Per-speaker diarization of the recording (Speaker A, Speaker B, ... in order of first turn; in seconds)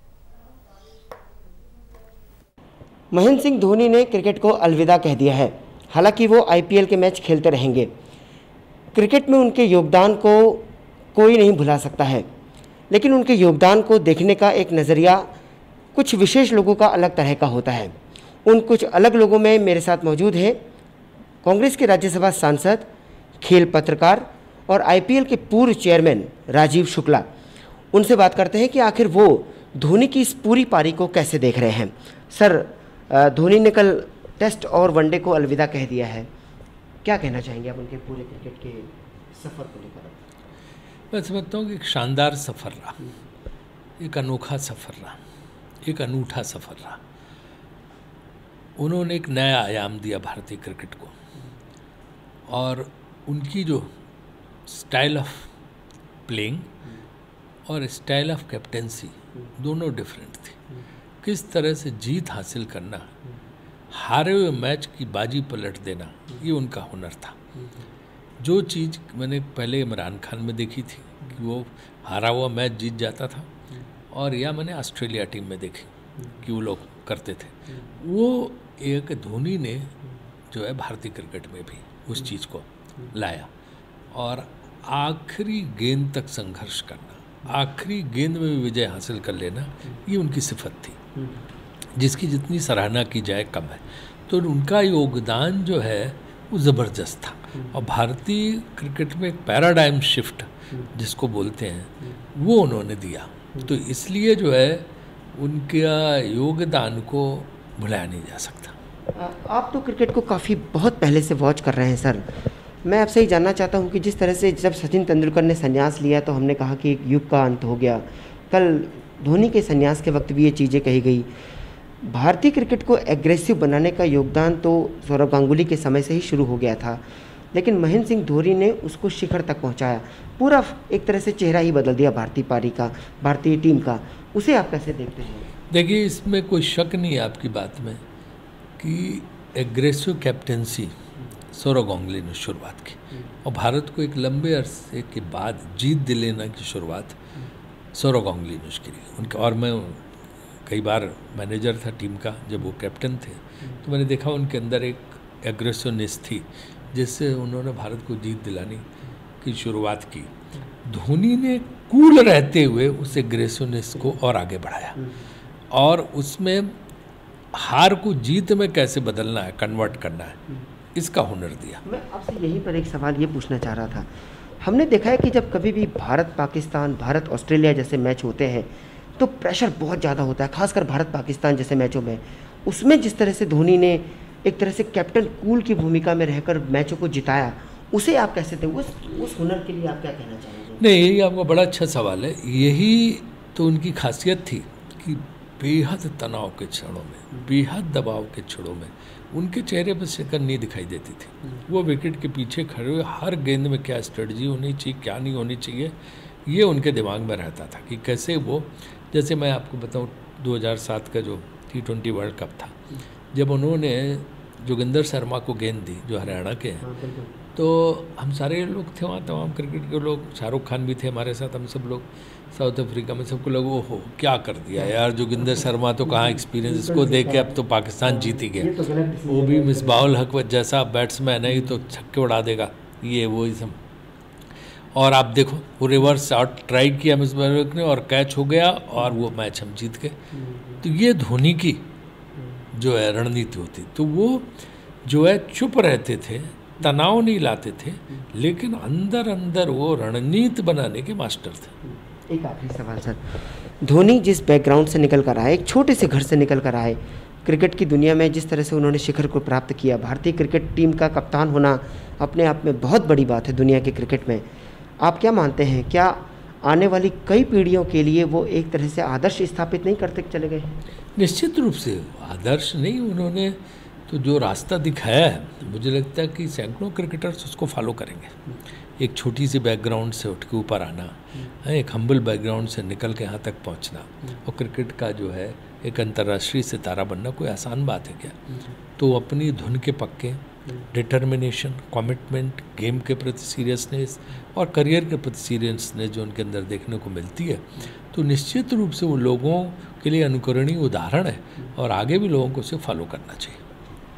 Speaker A: 3.1-7.9, 8.9-12.2, 12.9-15.3, 15.9-17.9, 18.4-20.6, 21.4-22.9, 23.4-27.3, 27.9-36.3, 37.0-40.2, 109.1-112.2, 112.8-121.3, 122.0-127.0, 127.5-135.5, 171.8-190.8, 216.8-217.4, 226.5-230.1, 251.8-264.4, 265.0-270.8
Speaker B: 41.1-43.0, 44.0-45.2, 45.8-47.0, 48.8-51.1, 52.5-53.9, 54.7-55.5, 56.3-56.7, 57.7-60.6, 61.2-63.1, 63.9-67.4, 68.4-73.5, 74.1-79.9, 80.5-83.5, 84.1-91.0, 92.0-108.8, 135.7-138.0, 138.8-140.9, 141.5-147.2, 147.9-150.0, 150.7-158.9, 159.4-160.3, 160.9-165.0, 165.7-166.7, 167.5-170.4, 170.9-171.8, 190.8-212.8, 213.3-216.8, 217.6-228.7, 229.3-233.8, 234.9-240.2, 240.8-241.8, 242.7-244.5, 245.1-251.7, 271.2-278.4, 279.0-288.4, 289.0-303.6